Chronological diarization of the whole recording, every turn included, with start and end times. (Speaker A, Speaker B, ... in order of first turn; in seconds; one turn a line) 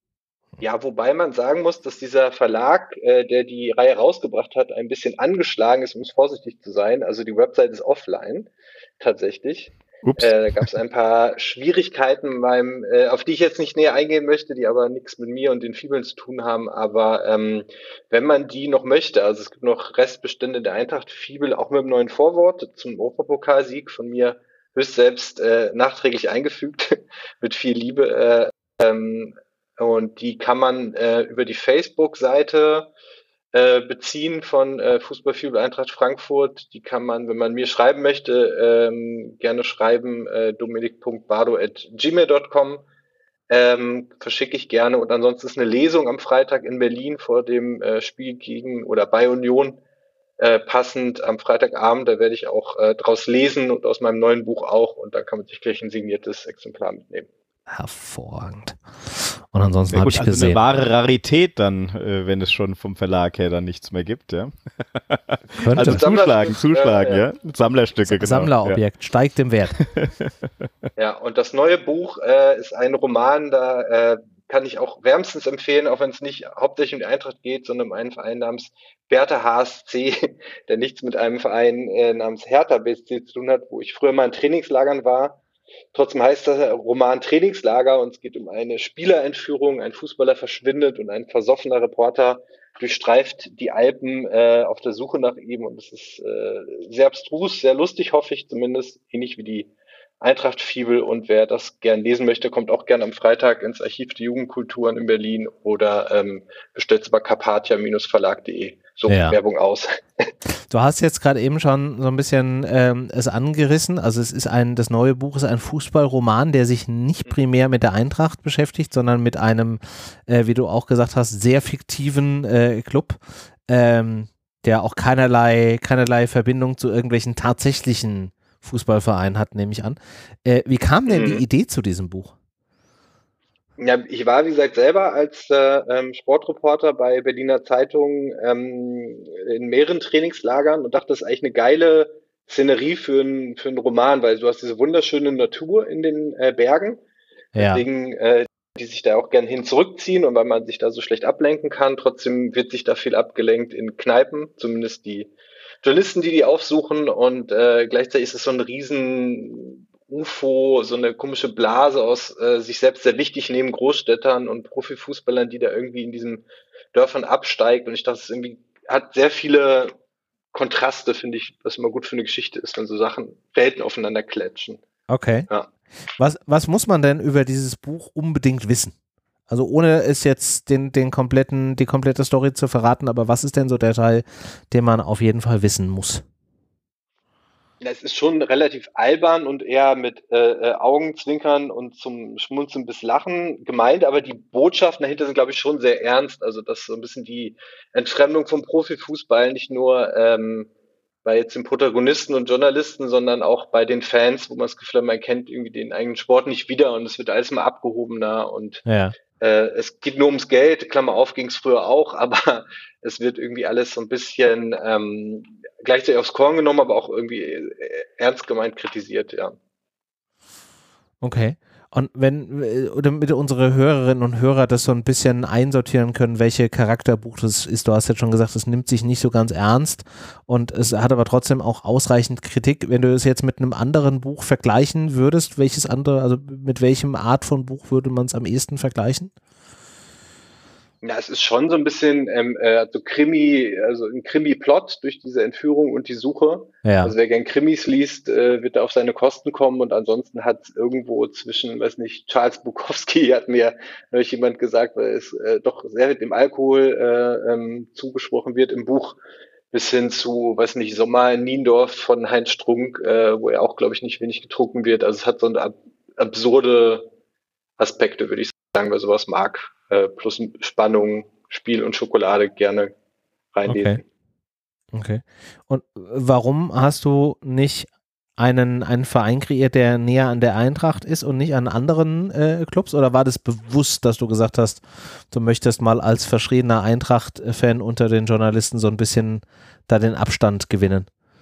Speaker A: 0.6-32.9
Speaker B: 10.0-10.3
Speaker A: 33.5-42.8
Speaker A: 43.5-49.8
Speaker A: 50.4-57.3
Speaker C: 57.7-60.6
Speaker B: 59.9-68.8
Speaker C: 65.6-66.0
Speaker A: 65.8-67.2
Speaker C: 68.1-69.8
Speaker B: 70.0-70.3
Speaker A: 71.0-85.4
Speaker A: 85.9-99.7
Speaker A: 100.2-110.3
Speaker C: 109.1-109.4
Speaker C: 110.7-132.3
Speaker A: 131.1-131.4
Speaker A: 133.8-147.0
Speaker C: 147.5-147.8
Speaker A: 147.6-155.3
Speaker A: 155.8-169.9
Speaker A: 170.5-174.8
Speaker C: 175.1-175.5
Speaker C: 176.2-178.9
Speaker C: 179.5-186.2
Speaker A: 187.8-200.7
Speaker A: 201.2-208.8
Speaker C: 208.8-209.1
Speaker A: 209.4-219.6
Speaker C: 221.2-239.3
Speaker A: 241.0-259.2
Speaker C: 246.8-247.1
Speaker A: 259.7-267.1
Speaker A: 267.8-272.9
Speaker A: 273.5-274.0
Speaker C: 273.7-274.0
Speaker C: 274.9-291.1